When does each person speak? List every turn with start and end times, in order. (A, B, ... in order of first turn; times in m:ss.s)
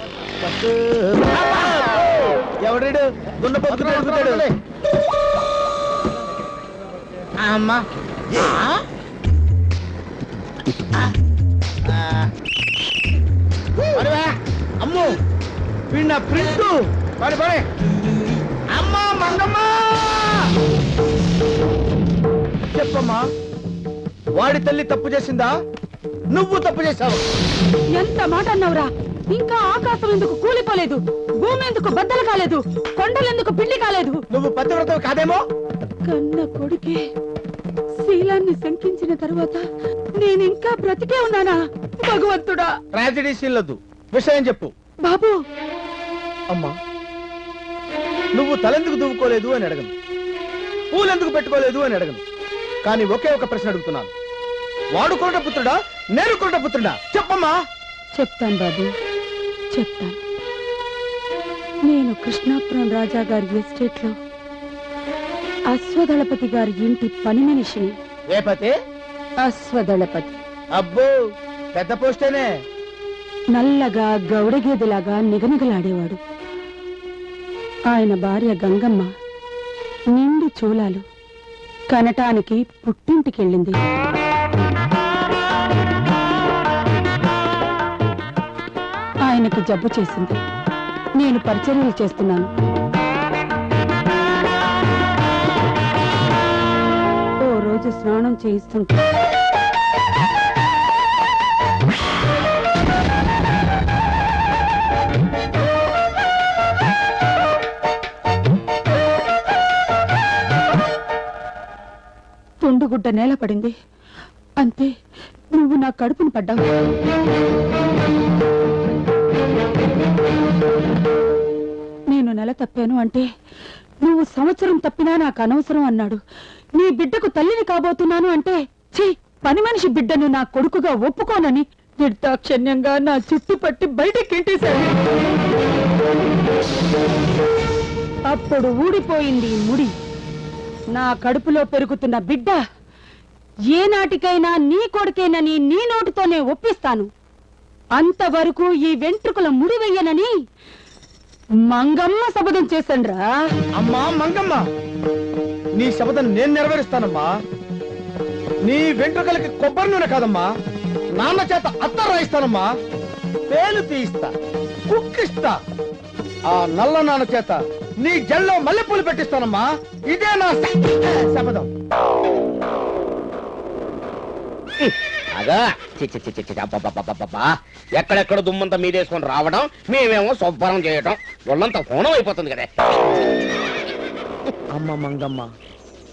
0:00.4-0:02.0 A
0:02.6-0:04.5 A
0:04.0-0:04.4 B
0:07.4-0:07.8 A
0:11.9-0:12.3 A
0:14.8-0:15.1 A
0:15.9-0:17.6 A
0:18.7-0:20.5 A
0:22.7-0:23.2 A
0:24.4-0:25.5 A
0:26.3-0:27.2 A
0:28.0-0:34.2 C
0:34.3-0:35.4 A
0:36.0-0:37.0 C
0:38.0-0:39.6 C
0:40.2-0:42.7 C
0:42.9-0:44.7 A
0:45.0-0:45.4 C
0:48.4-0:49.9 A
0:50.9-0:52.2 A
0:52.8-0:54.1 A
0:55.0-0:57.5 A
0:58.2-0:58.9 C
0:59.7-1:00.2 C
1:01.9-1:04.2 C
1:05.7-1:07.9 C
1:08.3-1:08.7 A
1:09.4-1:10.3 C
1:10.8-1:11.1 A
1:11.7-1:12.5 A
1:13.6-1:16.2 C
1:17.9-1:19.1 C
1:20.1-1:21.0 C
1:21.9-1:23.8 C
1:29.3-1:30.4 C
1:31.2-1:32.5 C
1:37.4-1:39.0 C
1:52.6-1:53.7 C
1:54.6-1:54.9 C
1:55.6-1:56.6 C
2:02.1-2:03.3 C
2:04.0-2:06.2 C
2:06.8-2:14.9 C
2:18.3-2:19.9 C
2:21.0-2:22.6 C
2:23.7-2:27.1 C
2:28.0-2:30.3 C
2:31.7-2:33.3 C
2:33.8-2:34.6 A
2:35.8-2:37.3 A
2:38.6-2:40.5 A
2:41.2-2:42.7 A
2:43.5-2:44.3 A
2:44.9-2:45.6 A
2:46.5-2:51.7 A
2:54.8-3:02.8 B
3:04.7-3:05.5 A